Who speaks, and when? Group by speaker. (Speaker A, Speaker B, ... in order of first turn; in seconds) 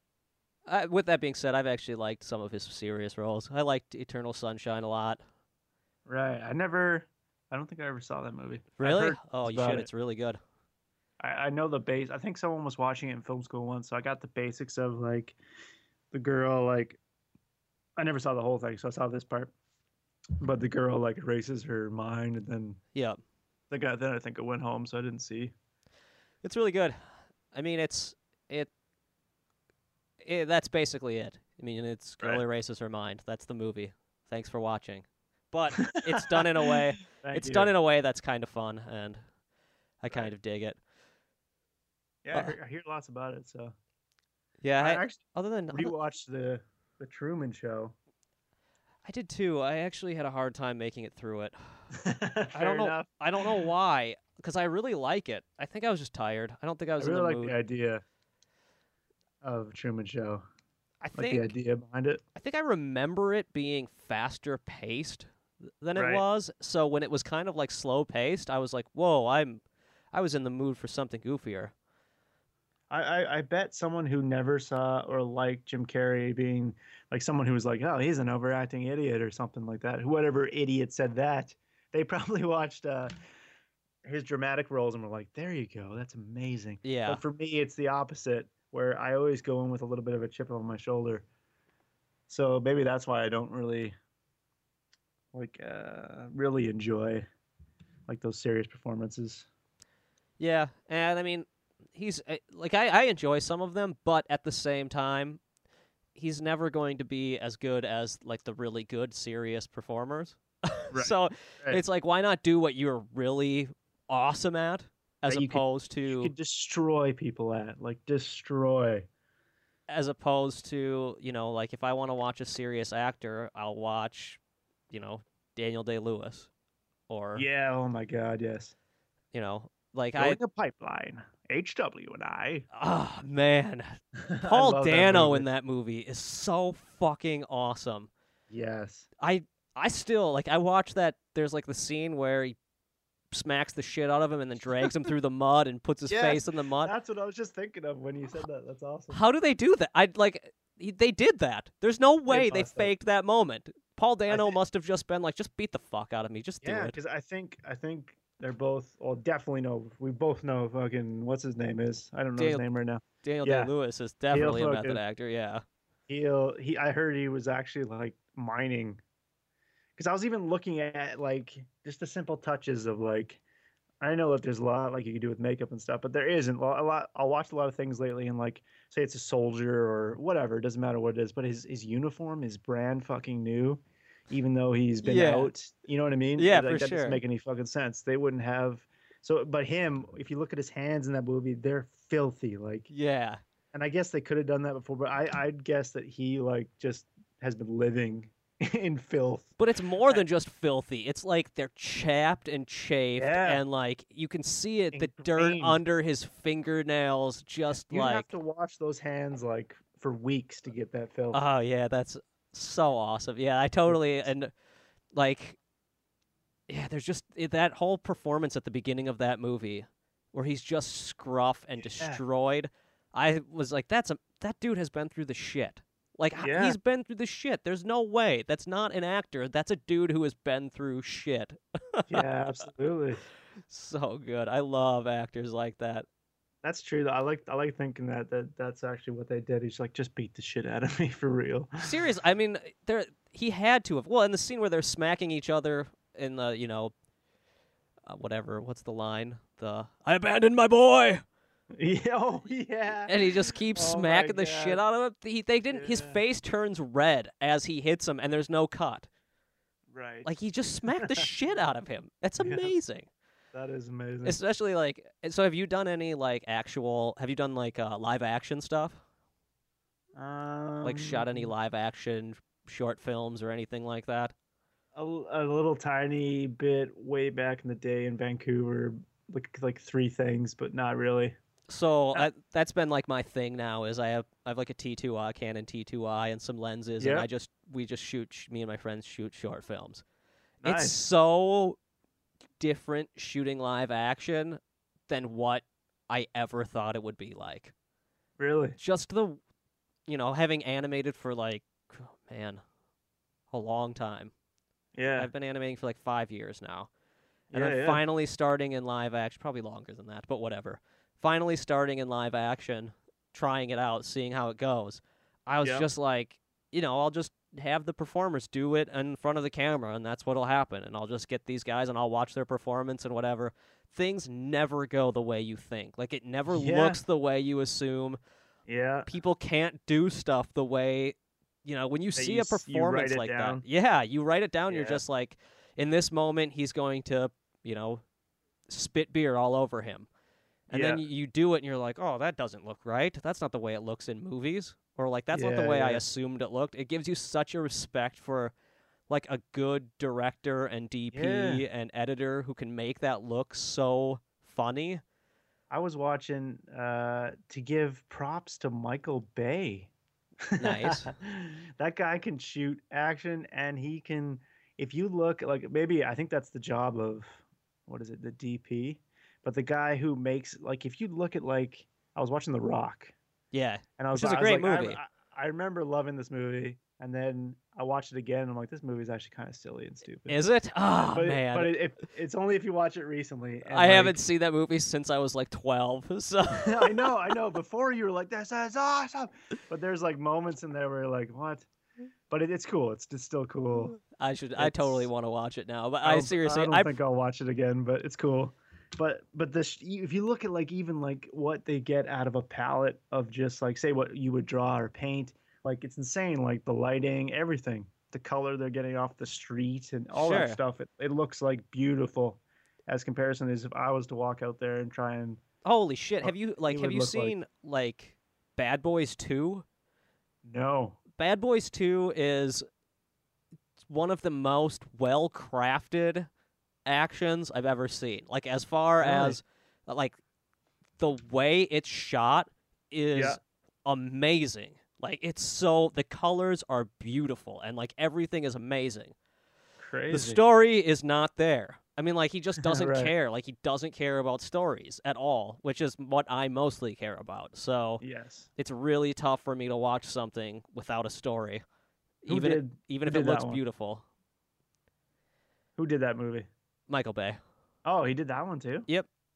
Speaker A: 0.7-5.2, 8.8-10.4, 26.4-26.9, 27.5-28.7, 30.2-39.2, 40.0-40.8, 44.6-45.9, 49.0-51.6, 52.5-57.5, 61.0-61.4, 62.4-65.3, 65.8-69.6, 70.1-71.7, 86.8-87.2, 100.4-105.4, 106.1-116.3, 119.9-126.5, 127.1-127.4, 129.3-130.4, 132.7-133.9, 134.4-138.1, 139.2-142.6, 143.3-146.9, 149.1-156.9, 162.4-162.6, 163.2-165.6, 185.0-185.5, 186.3-187.2, 192.9-193.4, 199.6-208.3, 211.3-214.5, 215.1-215.6, 216.7-232.2, 233.7-236.1, 241.8-246.9, 248.1-251.2, 253.1-259.1, 260.2-263.1, 264.2-269.0, 270.8-274.3, 281.7-290.0, 290.6-291.8, 292.6-297.7, 298.8-299.4, 300.1-302.6, 303.5-304.3, 305.2-306.9, 307.5-328.2, 329.1-338.0, 338.7-340.1, 340.7-348.5, 349.1-355.0, 360.6-361.1, 373.5-375.0, 380.3-381.7, 383.7-387.1, 394.0-396.9, 410.1-410.6, 415.6-419.6, 421.2-422.6, 423.8-426.3, 426.9-430.2, 431.0-439.1, 440.1-448.0, 448.6-451.6, 452.2-454.0, 456.9-457.4
Speaker B: 6.1-9.9, 11.2-15.4, 16.1-17.0, 18.0-19.5, 20.4-22.8, 23.7-25.5, 35.8-37.7, 42.2-43.7, 44.8-47.9, 51.9-53.6, 57.0-58.0, 59.4-60.4, 61.1-62.2, 65.9-66.2, 72.9-83.1, 84.0-91.2, 92.3-94.0, 95.3-97.2, 98.1-99.5, 110.9-111.8, 115.3-119.0, 127.3-128.7, 130.2-132.7, 134.2-135.5, 138.5-139.1, 146.1-149.2, 152.3-152.9, 154.3-154.6, 156.6-163.7, 164.3-165.0, 166.1-169.0, 169.9-173.4, 174.0-192.9, 193.7-199.5, 203.2-203.6, 204.9-205.8, 207.7-211.4, 213.9-214.3, 221.8-222.2, 226.4-226.8, 232.1-233.2, 236.6-241.8, 251.7-254.8, 255.7-256.2, 259.9-260.3, 260.9-261.2, 262.4-262.7, 263.5-264.4, 270.1-271.5, 274.9-281.3, 287.0-287.3, 290.6-291.0, 298.4-298.8, 304.9-305.3, 307.5-308.0, 315.6-315.9, 326.5-327.0, 328.7-329.1, 332.1-333.6, 334.7-335.0, 340.7-341.0, 345.3-346.0, 351.1-351.6, 355.7-359.9, 360.5-373.1, 374.0-380.4, 381.1-384.2, 386.5-391.7, 392.3-394.0, 394.6-395.1, 396.0-415.4, 416.2-417.3, 420.4-421.0, 429.0-429.4, 433.1-433.4, 439.8-440.4, 442.6-443.1, 448.0-448.5, 452.3-453.6, 455.8-456.5, 457.8-458.9